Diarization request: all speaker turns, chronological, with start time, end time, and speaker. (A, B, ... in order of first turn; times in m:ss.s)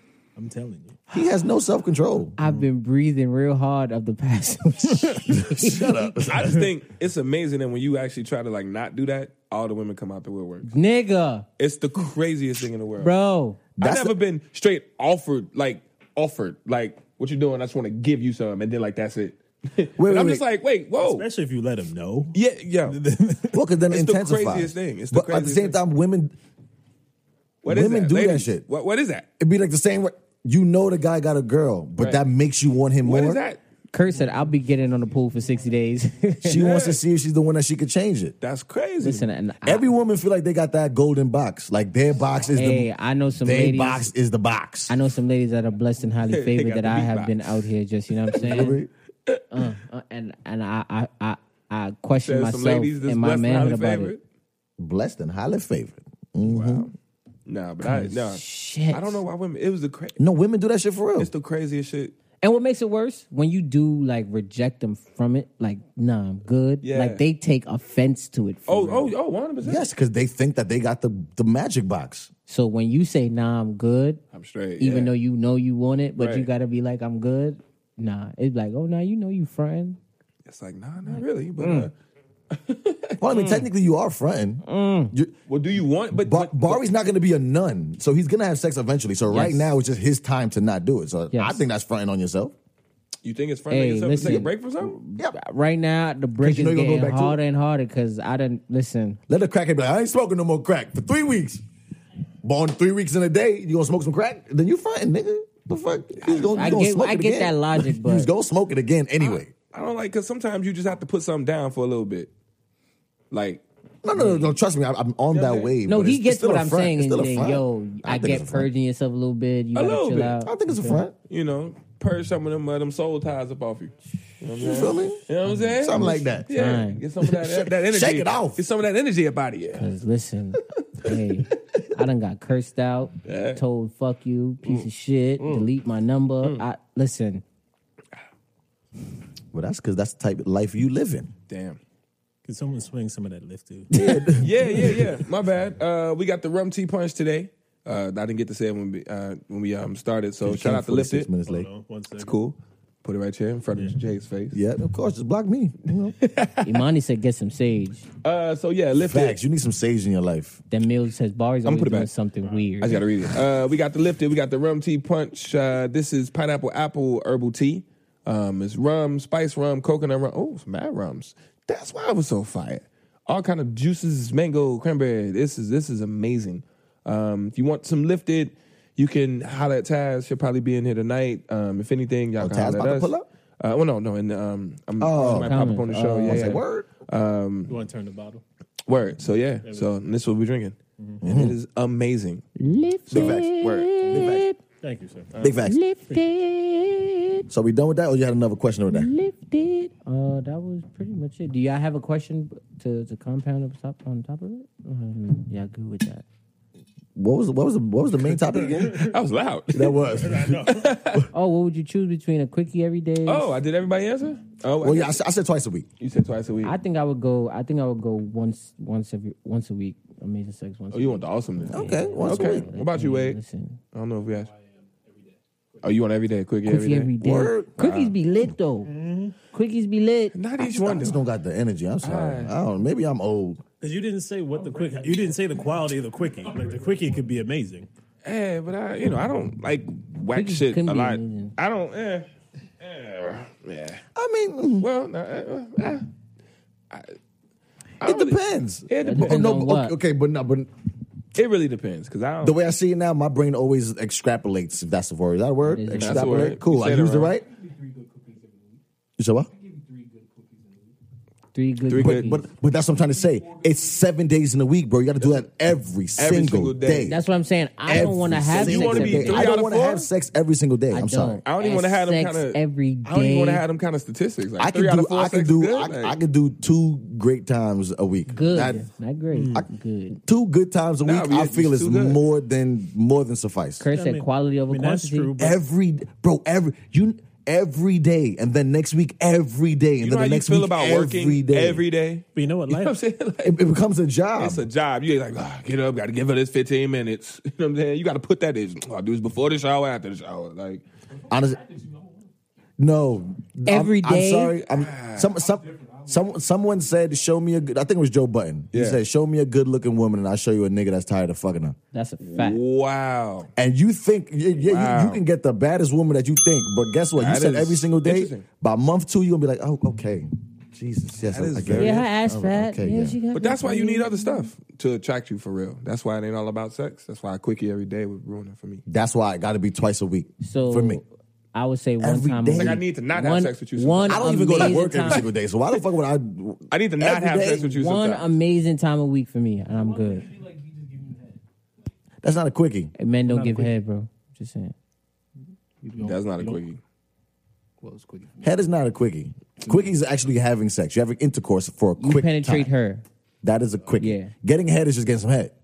0:00.4-0:01.0 A
0:01.1-0:02.4 B
0:02.4-0:06.2 C
0:05.2-0:06.6 B
0:06.2-0:10.7 D
0:10.6-0:11.4 C
0:11.6-0:13.1 D
0:13.0-0:13.6 C
0:13.8-0:14.2 B
0:13.8-0:21.3 D
0:20.0-0:20.4 B
0:21.0-0:23.6 A
0:22.3-0:23.0 D
0:23.5-0:26.4 B
0:23.9-0:25.8 D
0:27.6-0:29.3 D
0:27.6-0:28.6 B
0:29.4-0:33.4 B
0:33.0-0:33.6 D
0:33.9-0:36.7 C
0:36.4-0:38.4 B
0:36.5-0:37.0 D
0:38.4-0:39.3 D
0:39.0-0:39.9 C
0:39.6-0:44.9 B
0:42.5-0:44.1 C
0:44.9-0:48.8 C
0:46.2-0:47.4 D
0:48.4-0:48.9 B
0:48.4-0:48.7 D
0:49.5-0:54.1 C
0:52.2-0:54.2 D
0:54.8-0:56.9 B
0:56.4-0:56.9 D
0:57.4-1:00.2 D
0:57.8-0:59.2 C
1:00.2-1:01.3 B
1:01.2-1:02.1 D
1:02.4-1:09.1 C
1:06.8-1:07.2 D
1:08.7-1:09.9 D
1:09.6-1:12.3 B
1:12.5-1:14.2 C
1:14.3-1:15.1 D
1:14.8-1:20.0 C
1:16.2-1:16.5 D
1:20.4-1:21.9 D
1:21.1-1:21.9 C
1:22.5-1:23.2 D
1:23.2-1:25.4 B
1:23.3-1:23.6 C
1:24.6-1:25.1 C
1:25.5-1:26.9 D
1:26.1-1:32.5 B
1:29.3-1:29.7 C
1:31.3-1:31.6 C
1:33.2-1:35.0 D
1:33.7-1:39.2 C
1:36.4-1:37.4 B
1:39.3-1:41.6 B
1:42.4-1:49.5 B
1:46.2-1:46.8 D
1:46.5-1:48.3 C
1:49.2-1:52.3 D
1:53.3-1:53.6 D
1:54.0-1:58.7 B
1:54.2-1:54.4 C
1:55.3-1:55.7 D
1:55.9-2:01.0 C
1:59.7-2:00.4 D
2:00.4-2:01.1 B
2:01.3-2:09.9 D
2:04.6-2:05.2 B
2:05.8-2:06.5 B
2:06.5-2:07.0 C
2:07.2-2:08.6 B
2:09.7-2:17.4 C
2:13.2-2:13.6 D
2:15.4-2:15.6 D
2:19.5-2:21.3 B
2:21.5-2:21.8 D
2:22.4-2:25.0 A
2:23.9-2:24.5 B
2:24.3-2:31.3 D
2:30.4-2:31.7 B
2:31.4-2:32.4 A
2:32.2-2:34.6 D
2:34.5-2:36.1 B
2:36.2-2:36.8 D
2:36.6-2:38.1 C
2:38.2-2:39.4 D
2:39.0-2:40.6 B
2:40.7-2:43.0 C
2:41.6-2:42.1 D
2:42.4-2:42.7 A
2:42.8-3:07.7 D
3:02.4-3:03.2 B
3:05.0-3:05.6 B
3:05.3-3:06.6 C
3:06.2-3:06.9 B
3:07.7-3:08.4 A
3:08.9-3:12.4 D
3:09.6-3:09.9 A
3:11.2-3:11.6 B
3:12.6-3:14.6 C
3:13.1-3:14.1 D
3:13.1-3:14.5 B
3:14.8-3:15.5 A
3:15.4-3:15.8 B
3:15.6-3:17.4 C
3:17.5-3:19.1 B
3:18.9-3:26.2 C
3:27.2-3:29.1 B
3:28.4-3:29.1 A
3:29.0-3:30.1 D
3:29.7-3:31.2 B
3:30.2-3:30.9 A
3:30.6-3:31.3 D
3:31.3-3:33.6 C
3:33.2-3:35.2 D
3:34.8-3:35.8 B
3:36.0-3:36.8 D
3:36.6-3:43.8 C
3:40.9-3:43.4 D
3:41.7-3:42.7 B
3:43.9-3:44.5 D
3:44.2-3:46.1 E
3:45.8-3:48.1 D
3:46.6-3:48.9 C
3:47.2-3:47.7 B
3:48.8-3:49.4 A
3:49.5-3:50.4 C
3:50.3-3:51.2 D
3:50.6-3:53.6 B
3:52.0-3:52.5 D
3:53.8-3:57.9 A
3:54.5-3:55.7 E
3:56.4-3:57.2 E
3:58.2-4:02.3 D
4:00.3-4:01.5 C
4:02.8-4:04.0 D
4:04.1-4:04.9 B
4:04.8-4:06.1 D
4:08.0-4:09.5 D
4:08.0-4:10.7 B
4:09.0-4:09.9 C
4:11.4-4:12.6 D
4:12.4-4:17.4 B
4:15.6-4:16.5 C
4:16.0-4:17.3 D
4:17.4-4:18.8 E
4:19.2-4:19.5 B
4:19.5-4:20.9 E
4:21.5-4:22.4 C
4:21.9-4:22.3 D
4:22.0-4:27.2 B
4:22.9-4:24.0 E
4:26.2-4:27.2 D
4:27.0-4:29.6 C
4:27.9-4:31.4 B
4:27.9-4:30.1 D
4:30.9-4:33.6 C
4:31.4-4:36.2 D
4:34.6-4:38.9 B
4:38.3-4:40.2 C
4:39.3-4:39.6 A
4:40.2-4:43.8 B
4:41.0-4:42.2 D
4:43.8-4:45.3 C
4:43.9-4:45.6 A
4:45.4-4:51.8 B
4:50.0-4:53.6 D
4:52.4-4:53.0 A
4:53.4-4:54.7 B
4:54.4-5:00.8 D
5:01.1-5:02.3 E
5:01.3-5:01.6 B
5:02.8-5:11.8 B
5:03.6-5:04.6 C
5:04.7-5:05.3 D
5:05.4-5:06.4 E
5:08.7-5:09.0 D
5:11.9-5:12.6 C
5:12.2-5:13.5 D
5:13.6-5:23.2 B
5:14.6-5:15.2 D
5:17.2-5:18.4 D
5:21.2-5:22.1 D
5:21.8-5:24.5 C
5:23.3-5:28.8 D
5:28.8-5:31.0 B
5:30.4-5:35.2 C
5:32.0-5:32.8 B
5:32.5-5:35.2 D
5:34.1-5:37.7 B
5:36.7-5:38.3 D
5:37.7-5:40.3 C
5:39.6-5:41.4 E
5:42.2-5:42.9 B
5:43.0-5:44.7 C
5:43.2-5:43.8 E
5:45.8-5:46.6 E
5:46.0-5:46.8 D
5:47.8-5:48.6 E
5:48.4-5:52.7 B
5:49.6-5:49.9 E
5:52.0-5:53.0 C
5:53.4-5:55.5 B
5:54.0-5:54.3 C